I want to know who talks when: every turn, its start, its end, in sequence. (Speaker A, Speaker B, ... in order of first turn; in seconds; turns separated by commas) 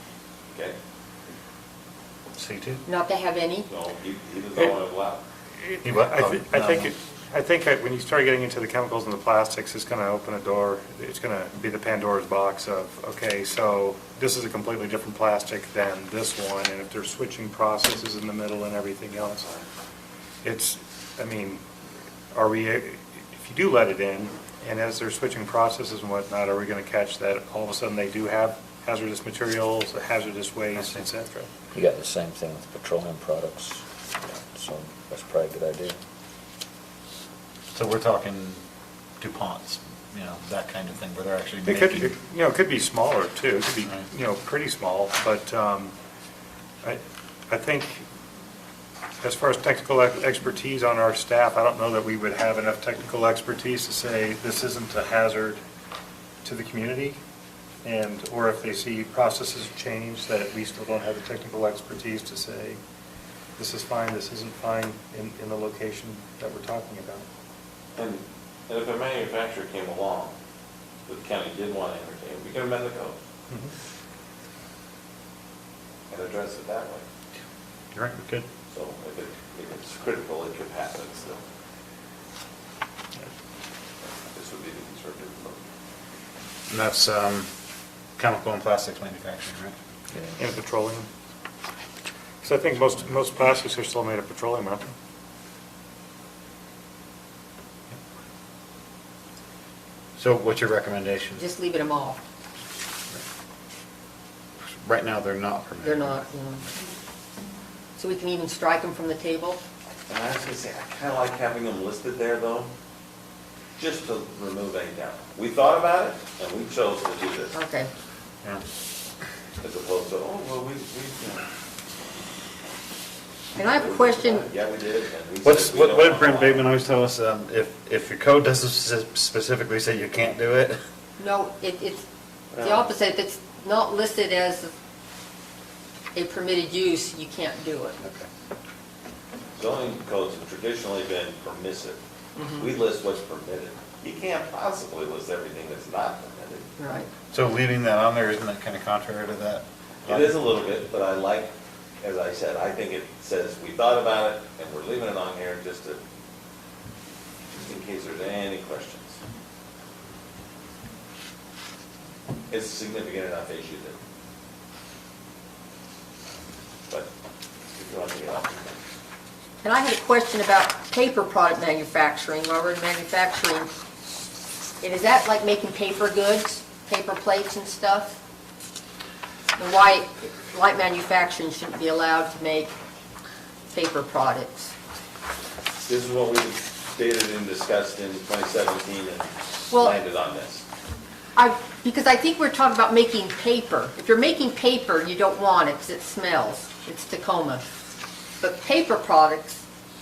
Speaker A: 0.5-0.8, Speaker B: 2.4-2.8, Speaker C: 2.9-3.7, Speaker A: 3.7-5.2, Speaker D: 5.6-19.4, Speaker B: 5.8-6.9, Speaker A: 19.4-19.7, Speaker D: 20.4-21.6, Speaker D: 22.3-31.5, Speaker B: 30.8-31.1, Speaker E: 31.7-36.0, Speaker B: 37.7-38.6, Speaker B: 39.2-42.1, Speaker D: 41.6-46.0, Speaker D: 46.8-48.1, Speaker D: 49.2-55.6, Speaker D: 56.4-57.2, Speaker D: 57.8-62.8, Speaker D: 63.6-67.3, Speaker A: 68.0-70.3, Speaker A: 71.1-73.2, Speaker A: 76.1-77.0, Speaker B: 77.9-78.5, Speaker A: 78.7-81.4, Speaker A: 84.0-85.6, Speaker B: 86.7-87.5, Speaker B: 88.2-89.8, Speaker D: 90.4-91.1, Speaker D: 92.4-94.9, Speaker B: 100.2-101.4, Speaker C: 101.4-102.2, Speaker B: 104.6-106.2, Speaker C: 105.8-106.7, Speaker C: 108.0-109.6, Speaker A: 110.1-112.7, Speaker A: 113.8-117.5, Speaker C: 117.5-117.9, Speaker A: 119.6-121.5, Speaker C: 123.5-124.5, Speaker A: 123.6-126.7, Speaker B: 125.4-130.8, Speaker C: 131.2-134.7, Speaker A: 132.6-132.9, Speaker C: 136.2-138.0, Speaker B: 138.0-138.3, Speaker A: 139.6-142.0, Speaker C: 142.4-142.8, Speaker A: 142.6-146.7, Speaker C: 146.8-147.1, Speaker B: 147.3-150.4, Speaker A: 150.1-156.0, Speaker A: 157.5-159.2, Speaker A: 162.5-164.0, Speaker A: 167.8-168.8, Speaker C: 169.6-173.7, Speaker C: 174.8-178.2, Speaker C: 179.6-182.7, Speaker C: 183.7-184.7, Speaker A: 185.8-190.7, Speaker C: 189.7-190.0, Speaker C: 191.4-197.7, Speaker C: 198.4-199.6